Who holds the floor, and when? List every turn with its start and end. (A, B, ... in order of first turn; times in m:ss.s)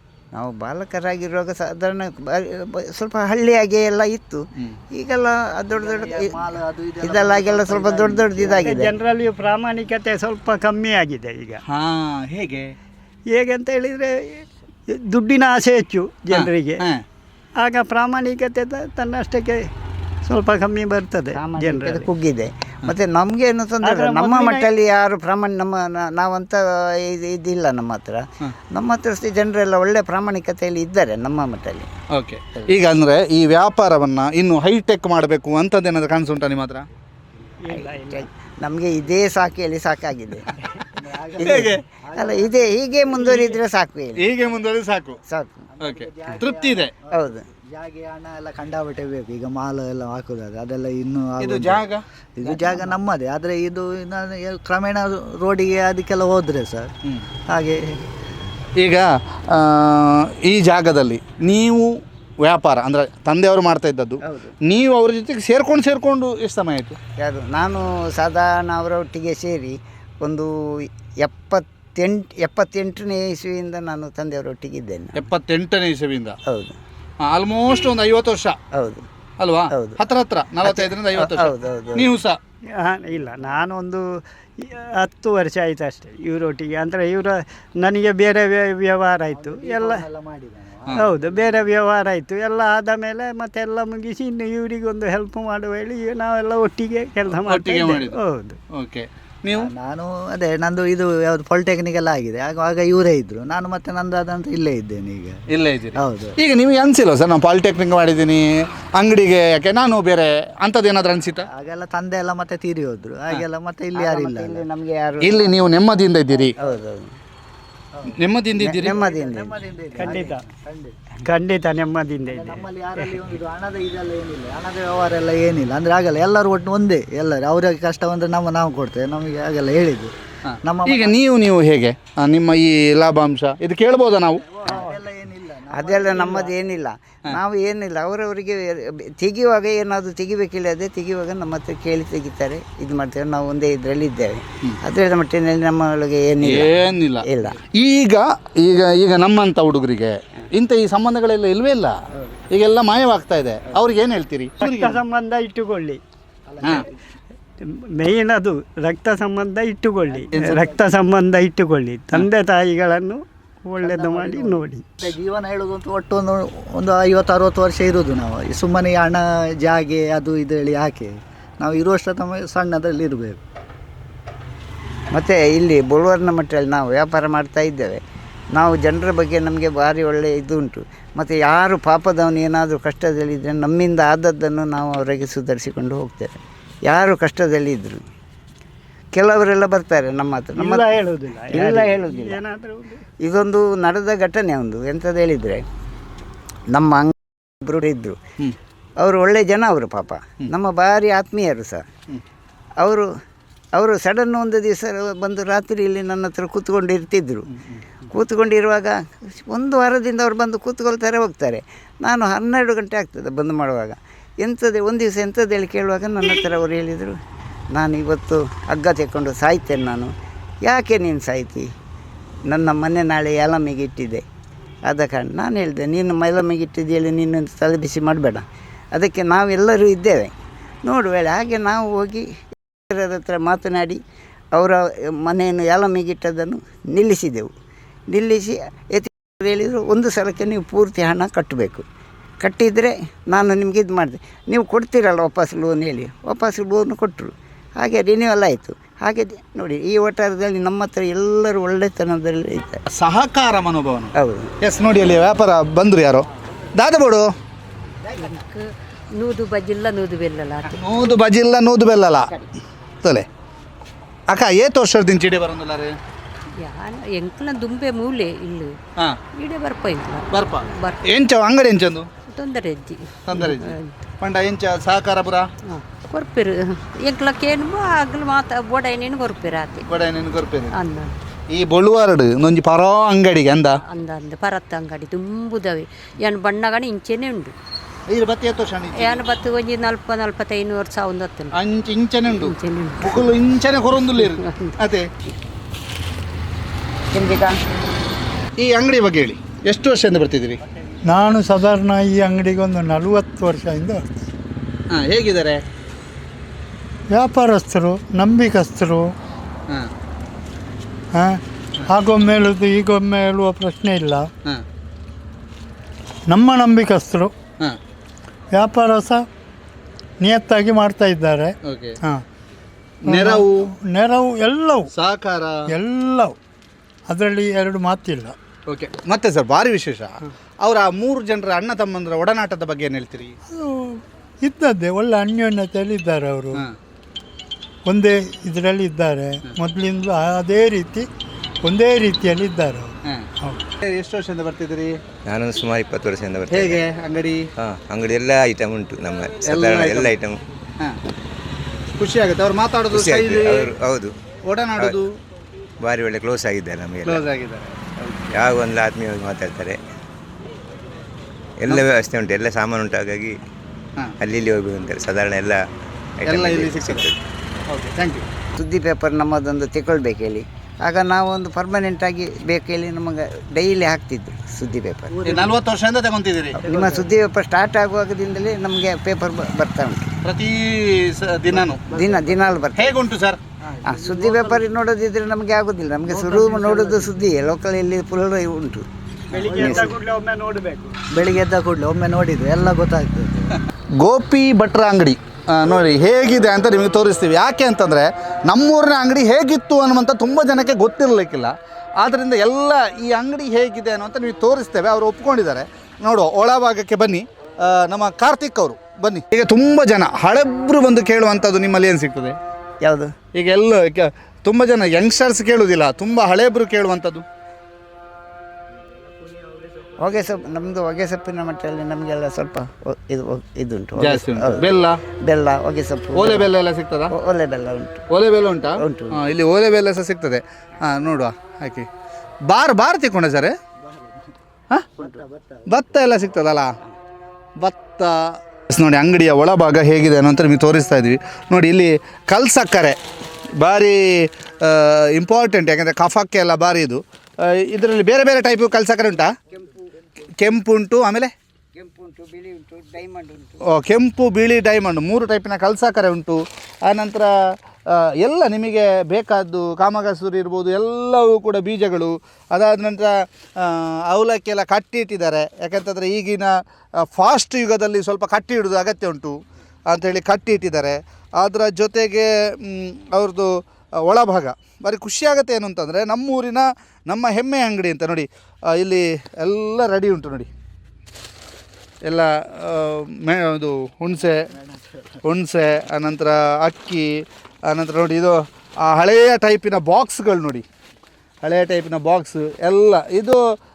0:00.3-0:06.3 A
0:05.7-0:08.8 B
0:07.0-0:09.0 A
0:08.6-0:11.6 C
0:11.7-0:12.7 D
0:13.3-0:16.8 C
0:16.3-0:17.0 D
0:17.6-0:19.7 C
0:20.2-0:22.1 C
0:21.3-0:31.9 A
0:23.8-0:24.7 C
0:32.1-0:36.9 D
0:37.6-0:38.3 C
0:37.7-0:40.5 A
0:40.9-0:43.6 B
0:41.4-0:44.3 A
0:41.4-0:41.8 D
0:44.2-0:45.2 D
0:45.3-0:45.7 A
0:45.7-0:51.8 B
0:45.8-0:46.9 D
0:47.1-0:47.4 A
0:51.4-0:52.0 D
0:52.4-0:56.9 B
0:52.4-0:52.8 A
0:57.5-0:57.9 B
0:58.8-1:01.9 D
1:02.4-1:07.0 D
1:04.2-1:04.5 A
1:07.2-1:15.3 A
1:15.2-1:16.4 D
1:16.5-1:16.8 A
1:17.3-1:18.6 D
1:18.7-1:19.0 A
1:19.4-1:22.4 D
1:19.7-1:20.0 A
1:20.6-1:22.1 A
1:22.8-1:24.1 C
1:24.6-1:30.0 C
1:29.3-1:31.5 B
1:31.0-1:38.6 C
1:37.4-1:38.2 D
1:38.7-1:39.7 D
1:39.5-1:45.4 B
1:45.5-1:48.5 D
1:46.0-1:46.4 B
1:49.0-1:51.5 D
1:51.4-1:54.6 B
1:54.0-1:55.6 A
1:55.2-1:56.5 D
1:56.6-1:57.1 A
1:58.2-1:59.0 D
1:58.6-2:00.2 A
1:58.8-2:01.0 B
2:00.0-2:00.4 C
2:01.2-2:02.6 C
2:02.3-2:11.2 B
2:10.5-2:14.4 D
2:14.4-2:16.6 B
2:15.7-2:27.6 A
2:26.4-2:32.0 D
2:32.5-2:35.0 D
2:34.6-2:36.0 C
2:36.5-2:36.9 B
2:37.6-2:44.8 C
2:40.1-2:40.8 B
2:43.8-2:53.4 B
2:55.1-2:58.0 A
2:58.5-3:08.0 A
3:09.1-3:10.9 A
3:10.6-3:13.0 C
3:11.5-3:12.4 A
3:13.2-3:15.7 A
3:16.7-3:18.2 A
3:19.0-3:21.9 A
3:22.8-3:23.1 A
3:23.7-3:27.5 A
3:27.6-3:27.8 D
3:28.1-3:37.2 A
3:37.7-3:40.1 A
3:40.6-3:41.7 A
3:42.5-3:44.2 A
3:44.9-3:50.3 A
3:50.8-3:54.0 A
3:54.6-3:57.5 A
3:58.1-4:01.8 A
4:02.4-4:12.8 A
4:12.9-4:16.2 D
4:14.2-4:14.5 A
4:16.8-4:17.3 D
4:18.1-4:20.8 E
4:20.7-4:22.3 D
4:24.3-4:26.0 D
4:26.6-4:28.8 E
4:29.4-4:31.0 E
4:30.3-4:32.1 D
4:32.3-4:34.0 E
4:33.3-4:35.5 D
4:35.7-4:39.9 E
4:39.9-4:40.8 D
4:40.8-4:41.2 E
4:41.5-4:43.8 D
4:43.9-4:47.5 E
4:48.1-4:49.2 D
4:49.0-4:51.6 E
4:51.6-4:55.1 D
4:52.3-4:53.2 E
4:54.2-4:54.8 E
4:57.1-4:57.6 A
4:58.6-5:00.6 D
5:01.1-5:04.1 F
5:04.9-5:05.6 D
5:07.1-5:09.1 F
5:11.1-5:14.3 F
5:16.3-5:17.3 F
5:18.5-5:19.2 F
5:20.2-5:22.2 F
5:21.7-5:22.0 D
5:23.0-5:23.6 D
5:23.1-5:24.9 F
5:24.9-5:25.7 D
5:25.7-5:26.4 F
5:27.1-5:28.4 F
5:28.7-5:33.4 D
5:33.5-5:36.6 F
5:37.9-5:41.1 F
5:41.6-5:43.7 F
5:43.8-5:45.0 D
5:45.2-5:46.8 G
5:46.5-5:47.5 D
5:47.6-5:50.4 G
5:49.5-5:50.2 D
5:52.0-5:53.7 D
5:52.9-5:54.1 G
5:54.4-5:55.1 D
5:55.8-5:57.2 G
5:57.0-5:58.4 D
5:58.3-5:59.8 G
6:01.6-6:03.4 G
6:04.2-6:05.6 G
6:06.2-6:07.2 G
6:06.2-6:07.1 D
6:07.7-6:08.3 D
6:08.6-6:15.4 A
6:15.1-6:15.6 B
6:15.2-6:16.6 D
6:16.6-6:17.2 B
6:16.6-6:20.1 A
6:20.2-6:21.9 D
6:21.9-6:23.0 A
6:21.9-6:22.4 B
6:22.8-6:23.4 D
6:23.8-6:24.6 B
6:23.8-6:28.9 A
6:26.4-6:26.9 C
6:29.3-6:31.0 C
6:29.3-6:30.0 B
6:29.5-6:29.9 A
6:31.1-6:33.6 B
6:34.0-6:52.4 D
6:52.8-6:53.1 A
6:53.4-6:57.3 D
6:58.7-7:00.4 B
7:00.0-7:06.5 A
7:04.0-7:05.0 D
7:06.2-7:07.1 D
7:07.1-7:08.0 A
7:08.1-7:11.9 D
7:08.8-7:09.2 A
7:12.5-7:13.5 D
7:13.8-7:14.2 B
7:15.0-7:15.8 B
7:15.7-7:16.7 D
7:17.6-7:23.0 D
7:23.6-7:29.3 D
7:29.5-7:29.9 A
7:30.4-7:31.3 D
7:31.8-7:33.6 A
7:33.7-7:37.3 D
7:37.9-7:46.5 D
7:47.0-7:49.4 D
7:49.9-7:53.5 D
7:54.0-8:00.5 D
8:02.1-8:04.5 D
8:04.2-8:05.0 B
8:05.2-8:07.1 D
8:07.7-8:10.6 D
8:11.4-8:13.4 D